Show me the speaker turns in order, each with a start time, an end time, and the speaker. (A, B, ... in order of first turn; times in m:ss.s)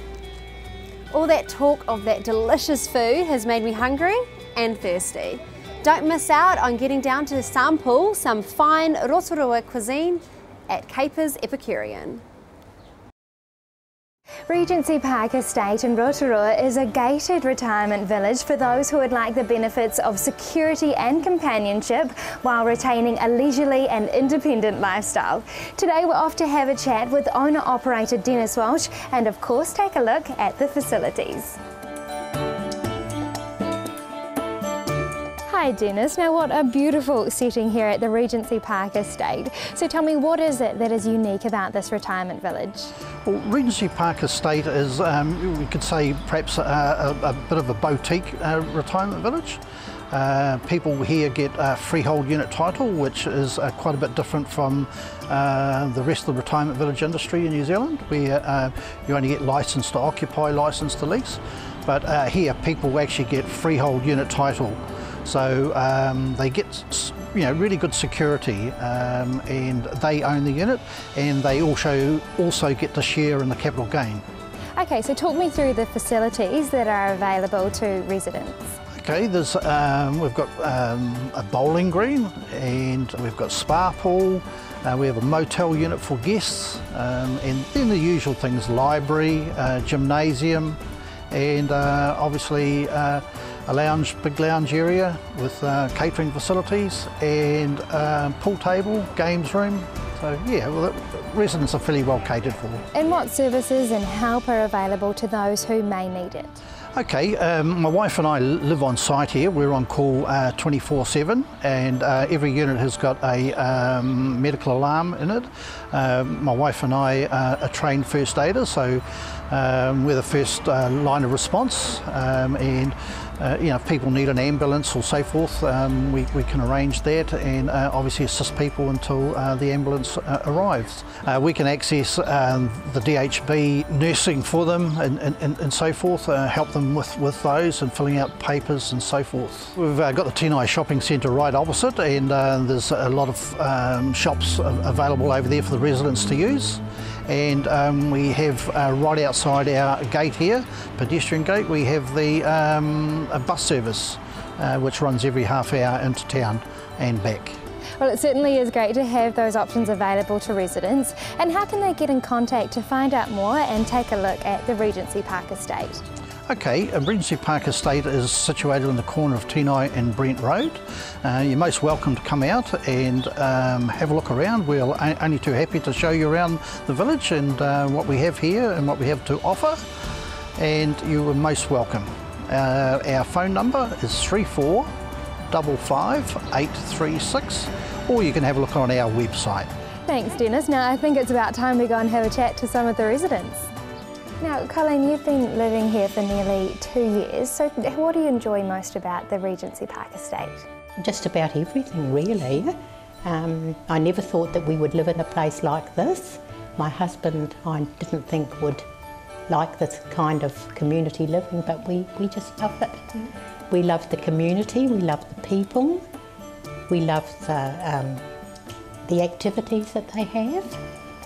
0:01.1-0:12.2 A
0:14.5-0:31.6 B
0:35.5-0:42.9 B
0:43.2-1:14.2 C
1:14.8-1:18.8 B
1:18.9-1:42.8 C
1:42.9-1:46.6 B
1:47.0-2:37.6 C
2:38.0-2:46.0 B
2:46.5-3:04.9 C
3:05.5-3:09.7 C
3:10.1-3:13.7 B
3:14.4-3:20.6 B
3:21.0-3:28.9 D
3:29.5-3:36.0 D
3:36.9-3:38.3 D
3:39.0-3:40.8 D